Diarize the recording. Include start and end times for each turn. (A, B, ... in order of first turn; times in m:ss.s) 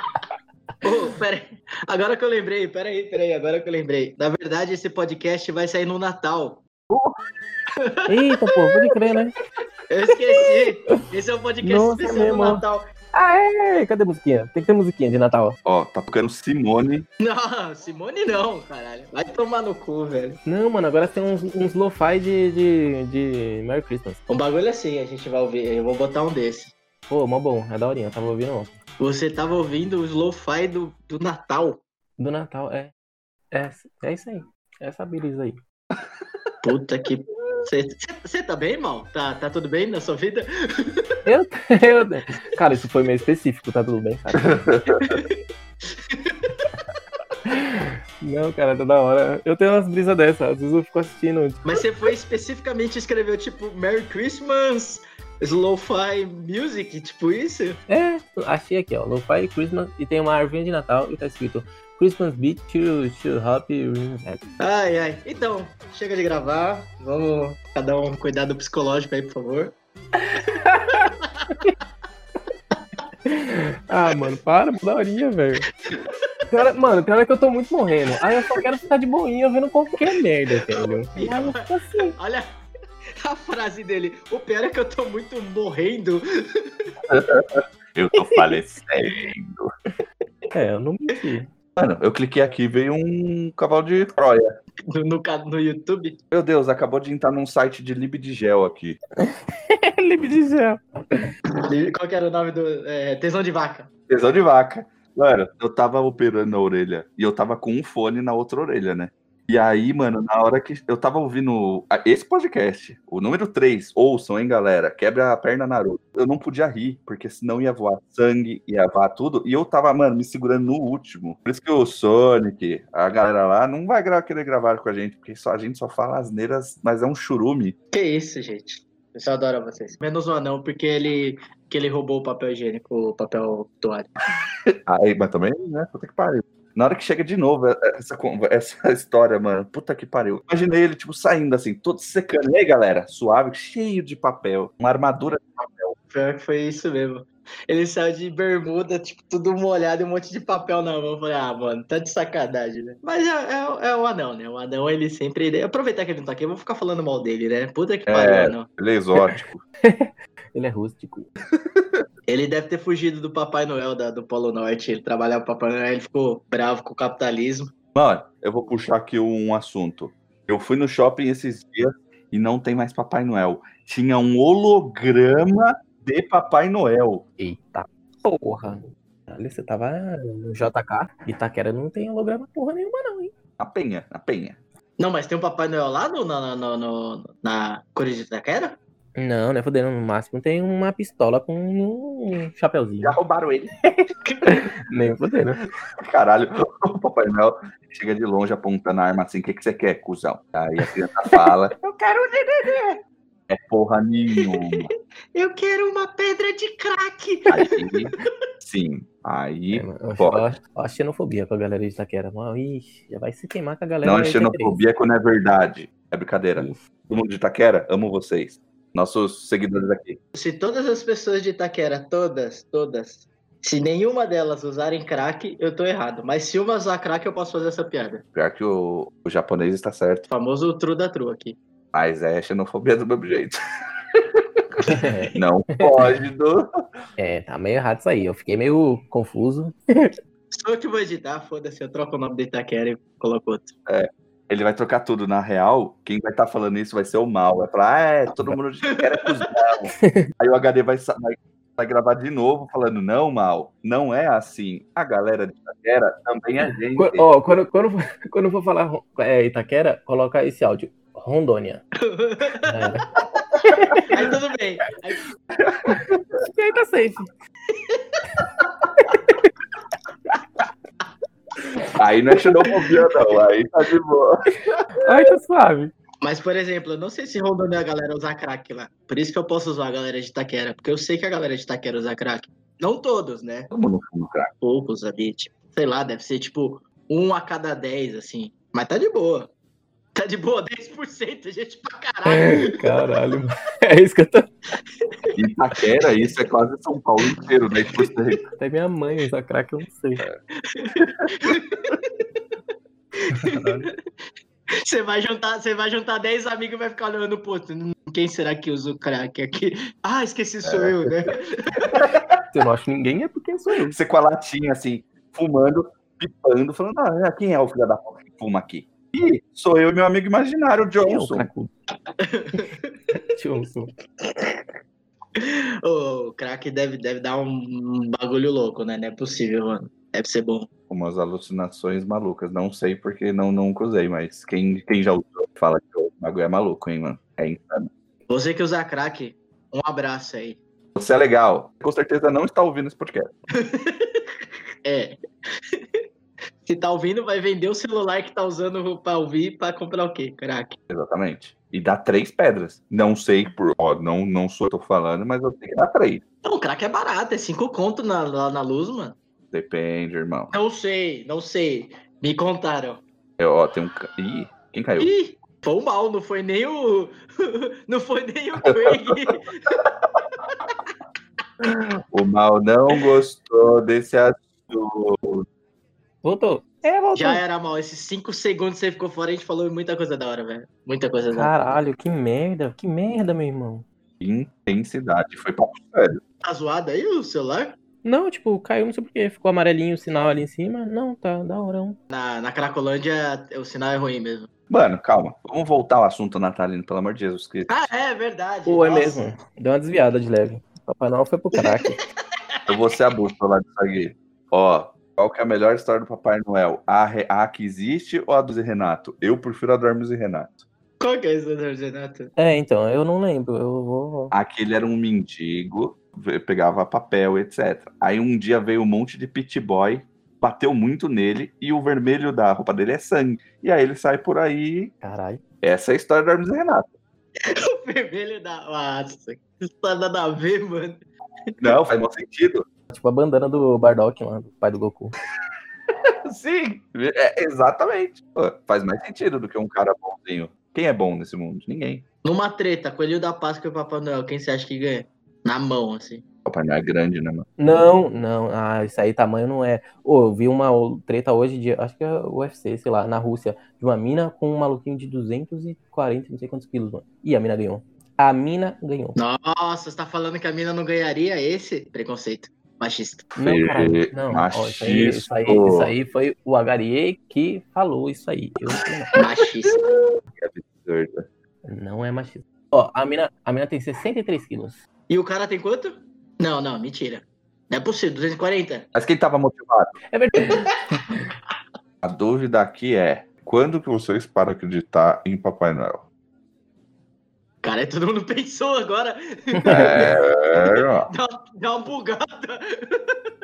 0:00.8-0:06.6 A
0:06.9-0:07.2 B
0:07.8-0:08.1 A
0:08.1-0:09.3 C
0:09.9-0:12.9 A
0:11.6-0:15.6 C
0:15.6-0:17.0 B
0:17.2-0:20.4 A
0:20.4-0:24.2 C
0:24.3-0:26.7 A
0:27.1-0:28.8 C
0:29.0-0:31.8 A
0:32.2-0:32.9 C
0:33.5-0:35.6 C
0:36.6-0:41.2 A
0:41.2-0:44.8 C
0:44.7-0:45.1 B
0:45.0-0:45.4 A
0:46.0-0:46.5 A
0:47.4-0:51.8 C
0:51.6-0:57.8 A
0:57.9-1:04.5 C
1:04.6-1:09.7 A
1:10.2-1:11.7 C
1:13.3-1:15.7 C
1:16.5-1:22.1 C
1:20.7-1:22.5 A
1:23.2-1:26.9 A
1:27.1-1:29.7 B
1:28.2-1:28.4 C
1:30.5-1:31.5 C
1:31.8-1:34.5 B
1:34.9-1:36.2 A
1:36.3-1:39.0 B
1:39.3-1:41.3 C
1:41.6-1:43.9 A
1:44.1-2:07.8 B
2:07.9-2:14.1 A
2:14.9-2:25.9 B
2:26.1-2:38.7 A
2:38.1-2:39.6 B
2:39.2-2:41.3 C
2:42.3-2:47.7 A
2:47.9-2:57.2 B
2:57.4-3:03.3 C
3:03.6-3:04.6 B
3:05.0-3:08.8 A
3:09.2-3:13.2 C
3:13.0-3:13.8 B
3:13.9-3:15.6 C
3:16.0-3:21.7 B
3:21.3-3:23.0 C
3:23.5-3:24.9 B
3:24.4-3:27.9 A
3:27.4-3:30.4 B
3:29.7-3:34.8 C
3:34.0-3:40.2 B
3:36.6-3:36.8 C
3:40.3-3:48.2 A
3:48.3-3:50.3 B
3:50.3-3:51.6 A
3:51.9-3:53.6 B
3:54.1-3:54.4 B
3:54.8-3:55.8 C
3:55.3-3:56.7 B
3:57.2-4:00.1 C
4:00.5-4:03.7 A
4:03.8-4:17.3 B
4:09.0-4:09.4 A
4:10.0-4:10.3 C
4:17.0-4:21.8 C
4:22.0-4:22.9 A
4:22.6-4:23.0 C
4:23.6-4:25.2 A
4:23.7-4:24.2 C
4:25.6-4:26.2 B
4:25.9-4:27.3 C
4:27.7-4:28.1 A
4:29.0-4:29.3 C
4:31.9-4:35.2 B
4:35.0-4:35.9 C
4:36.2-4:43.7 A
4:43.7-4:44.5 B
4:44.6-4:49.5 A
4:50.1-4:53.1 A
4:52.3-4:54.5 C
4:55.4-4:58.4 B
4:58.6-5:00.3 C
5:00.6-5:02.2 A
5:01.0-5:01.3 B
5:03.2-5:03.9 A
5:03.3-5:03.9 C
5:04.8-5:12.1 A
5:10.6-5:11.3 B
5:11.9-5:12.3 B
5:12.5-5:14.0 C
5:13.9-5:21.5 B
5:21.0-5:21.7 C
5:22.2-5:22.9 A
5:23.3-5:23.9 C
5:25.4-5:30.7 A
5:30.9-5:37.9 B
5:38.3-5:40.6 A
5:40.9-5:43.3 B
5:43.5-5:44.2 A
5:44.8-5:45.2 A
5:45.7-5:46.0 A
5:46.6-5:50.8 A
5:50.9-5:56.2 B
5:56.4-5:59.2 A
5:59.5-6:00.5 B
6:00.5-6:03.0 A
6:03.4-6:05.1 B
6:05.0-6:09.8 A
6:08.6-6:09.2 B
6:11.6-6:15.4 B
6:16.2-6:17.4 C
6:17.2-6:21.5 A
6:21.3-6:23.8 C
6:24.2-6:26.2 B
6:26.4-6:27.8 A
6:28.0-6:32.0 C
6:32.1-6:34.5 A
6:34.7-6:37.7 B
6:37.7-6:39.2 A
6:38.6-6:42.0 C
6:42.7-6:50.6 B
6:51.0-6:52.3 A
6:52.4-6:54.3 C
6:54.3-7:04.9 B
7:05.0-7:05.4 C
7:05.6-7:06.9 B
7:07.4-7:11.0 A
7:11.6-7:12.6 B
7:12.9-7:15.1 C
7:16.2-7:22.0 B
7:22.2-7:26.2 A
7:26.4-7:27.5 B
7:27.6-7:39.2 C
7:39.2-7:43.3 A
7:43.3-7:45.9 B
7:43.4-7:49.2 C
7:49.2-7:49.8 A
7:50.3-7:51.3 B
7:51.6-7:54.8 C
7:55.1-7:58.9 A
7:58.9-7:59.9 B
8:00.1-8:00.7 C
8:02.0-8:06.0 B
8:07.6-8:13.2 A
8:09.6-8:10.1 C
8:09.7-8:11.1 B